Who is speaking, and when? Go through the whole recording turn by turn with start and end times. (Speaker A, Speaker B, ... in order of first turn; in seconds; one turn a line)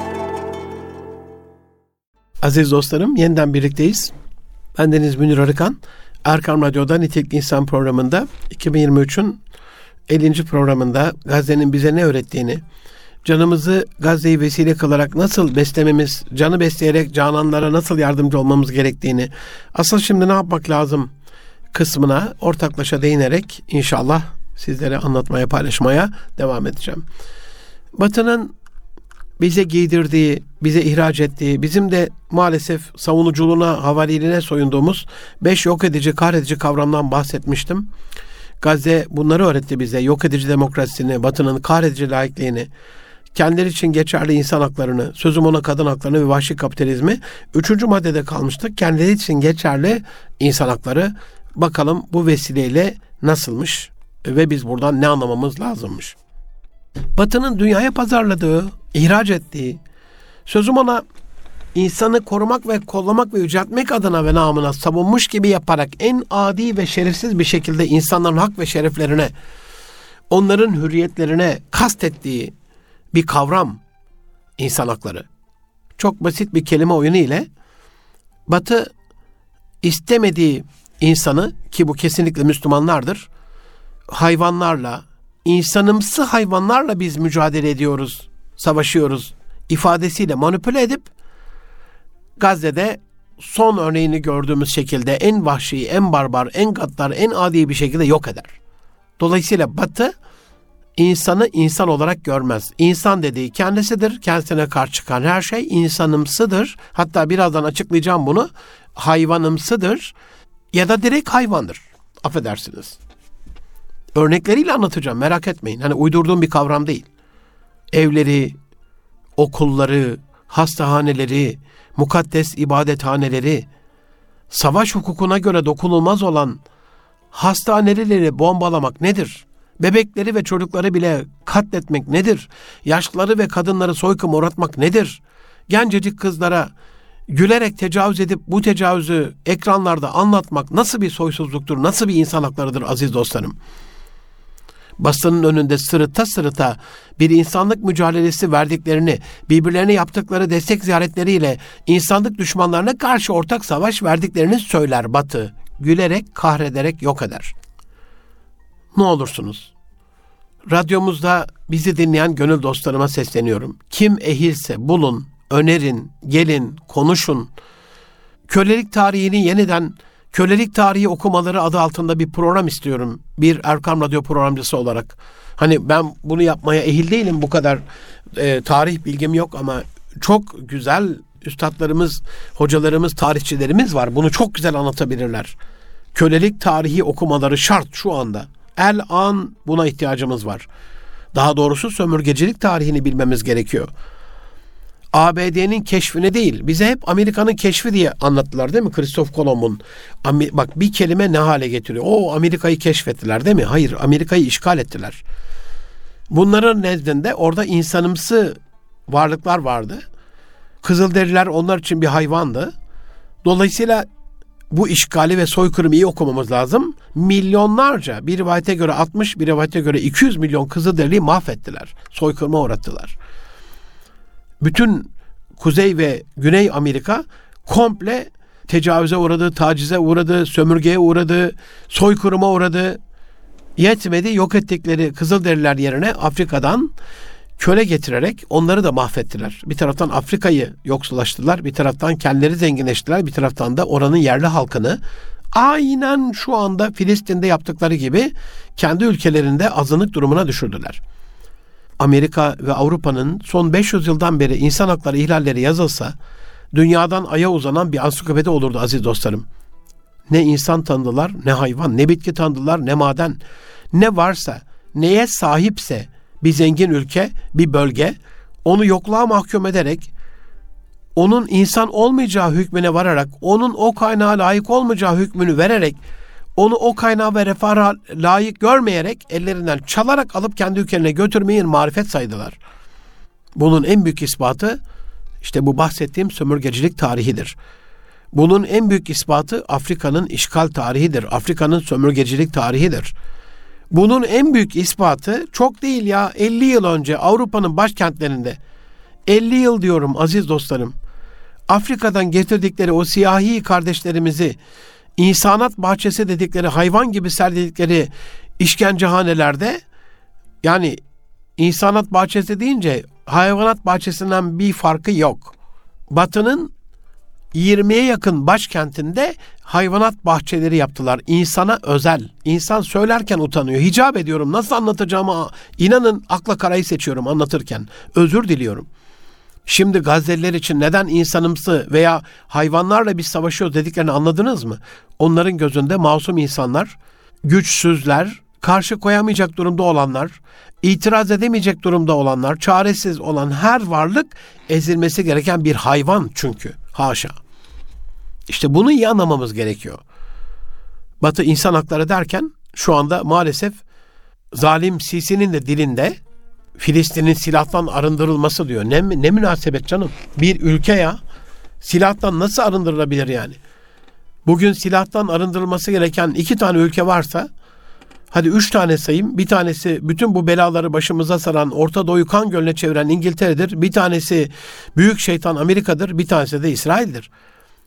Speaker A: 2.4-4.1
Speaker A: 4.7-9.4
Speaker A: 10.1-12.6
Speaker A: 13.2-21.1
Speaker A: 21.7-27.0
Speaker A: 28.0-28.5
Speaker A: 29.4-37.9
Speaker A: 38.6-42.7
Speaker A: 43.3-56.1
Speaker A: 57.1-59.8
Speaker A: 60.5-61.0
Speaker A: 61.7-69.3
Speaker A: 70.3-72.5
Speaker A: 73.1-73.8
Speaker A: 74.6-75.2
Speaker A: 76.0-77.5
Speaker A: 78.5-78.9
Speaker A: 79.8-83.3
Speaker A: 84.1-91.1
Speaker A: 92.4-98.6
Speaker A: 99.2-100.1
Speaker A: 101.0-110.1
Speaker A: 110.7-113.0
Speaker A: 114.1-117.1
Speaker A: 117.9-118.6
Speaker A: 119.4-123.7
Speaker A: 124.5-126.6
Speaker A: 127.3-136.7
Speaker A: 137.3-143.6
Speaker A: 145.0-157.5
Speaker A: 158.9-159.7
Speaker A: 160.7-167.5
Speaker A: 168.5-177.8
Speaker A: 178.3-185.6
Speaker A: 186.1-190.7
Speaker A: 191.3-193.9
Speaker A: 195.1-205.2
Speaker A: 206.3-210.0
Speaker A: 210.8-212.7
Speaker A: 213.4-214.1
Speaker A: 214.7-223.2
Speaker A: 224.6-233.0
Speaker A: 233.8-236.9
Speaker A: 237.6-245.0
Speaker A: 245.5-251.0
Speaker A: 252.0-256.1
Speaker A: 256.7-259.4
Speaker A: 260.3-263.4
Speaker A: 263.9-270.1
Speaker A: 271.1-276.0
Speaker A: 276.6-282.6
Speaker A: 283.6-284.8
Speaker A: 285.4-287.6
Speaker A: 288.3-293.1
Speaker A: 293.9-298.6
Speaker A: 299.3-300.9
Speaker A: 301.7-304.6
Speaker A: 305.2-309.8
Speaker A: 310.6-311.0
Speaker A: 311.6-315.5
Speaker A: 316.1-316.7
Speaker A: 317.5-328.9
Speaker A: 329.6-347.3
Speaker A: 348.5-350.0
Speaker A: 351.2-353.8
Speaker A: 354.5-356.2
Speaker A: 356.8-361.2
Speaker A: 361.8-363.6
Speaker A: 364.4-367.5
Speaker A: 368.3-377.3